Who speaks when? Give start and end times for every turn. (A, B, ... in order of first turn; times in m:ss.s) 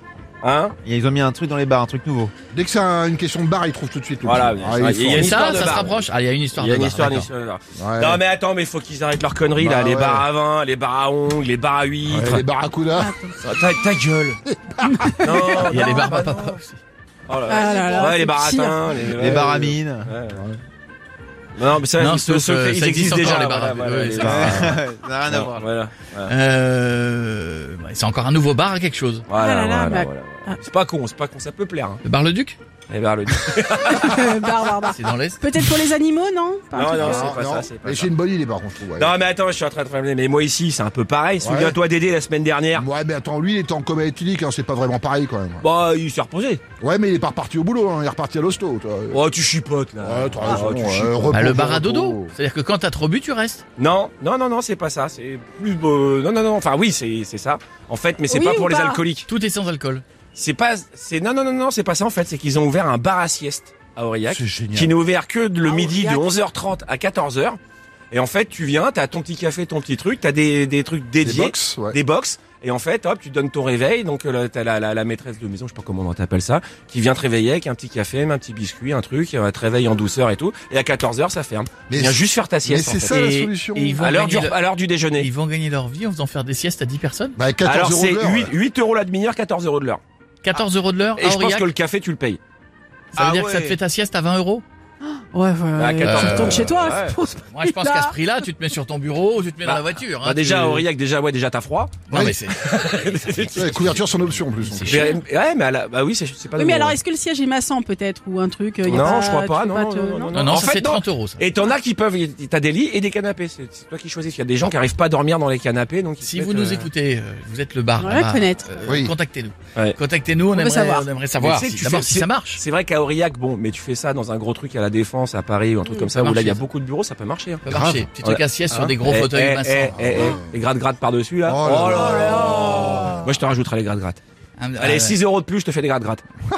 0:00.4-0:00.7 A
0:00.8-0:02.3 B
0:02.5-0:05.9 C
0:04.2-0:12.4 A
0:05.1-0:07.3 D
0:07.7-0:08.2 C
0:09.6-0:10.3 C
0:12.0-0:13.2 C
0:13.0-0:13.4 E
0:13.4-0:14.4 A
0:14.5-0:15.5 C
0:14.9-0:15.8 E
0:15.2-0:16.6 A
0:15.7-0:16.8 D
0:17.3-0:20.5 A
0:17.5-0:18.8 E
0:19.1-0:20.1 B
0:21.6-0:24.7 A
0:22.0-0:24.8 D
0:24.2-0:25.7 B
0:25.2-0:26.3 A
0:26.3-0:29.2 D
0:29.3-0:32.0 A
0:29.4-0:30.6 E
0:32.0-0:32.6 D
0:32.9-0:34.2 A
0:33.9-0:37.3 E
0:34.8-0:35.4 D
0:36.7-0:38.1 A
0:37.0-0:39.1 C
0:39.0-0:42.9 A
0:41.4-0:41.8 C
0:42.7-0:45.6 C
0:45.6-0:46.6 A
0:46.8-0:49.2 C
0:49.1-0:51.5 A
0:50.0-0:52.3 C
0:51.3-0:53.6 D
0:53.8-0:59.3 A
0:58.3-0:59.0 E
0:59.3-1:00.0 D
1:00.3-1:07.6 A
1:04.2-1:04.9 C
1:05.6-1:06.2 E
1:08.1-1:23.1 A
1:11.2-1:12.0 C
1:21.9-1:24.3 C
1:23.1-1:24.6 D
1:24.0-1:25.3 A
1:25.2-1:27.4 D
1:27.4-1:28.5 C
1:27.6-1:30.0 A
1:30.4-1:31.7 D
1:31.2-1:32.4 A
1:33.1-1:34.6 D
1:33.2-1:33.7 A
1:35.0-1:38.1 E
1:35.8-1:37.2 A
1:36.0-1:36.9 D
1:37.5-1:40.8 D
1:39.6-1:44.0 A
1:42.1-1:45.1 D
1:42.1-1:42.4 C
1:43.5-1:45.1 C
1:44.8-1:47.0 A
1:46.6-1:50.4 E
1:48.8-1:56.9 A
1:50.3-1:51.4 D
1:56.2-2:02.6 D
1:58.0-1:59.0 E
2:00.5-2:01.1 E
2:01.4-2:14.2 A
2:06.1-2:06.6 D
2:07.6-2:10.0 D
2:07.7-2:08.0 C
2:09.9-2:10.6 C
2:11.4-2:13.2 C
2:11.9-2:13.3 E
2:14.6-2:15.2 D
2:14.8-2:16.2 A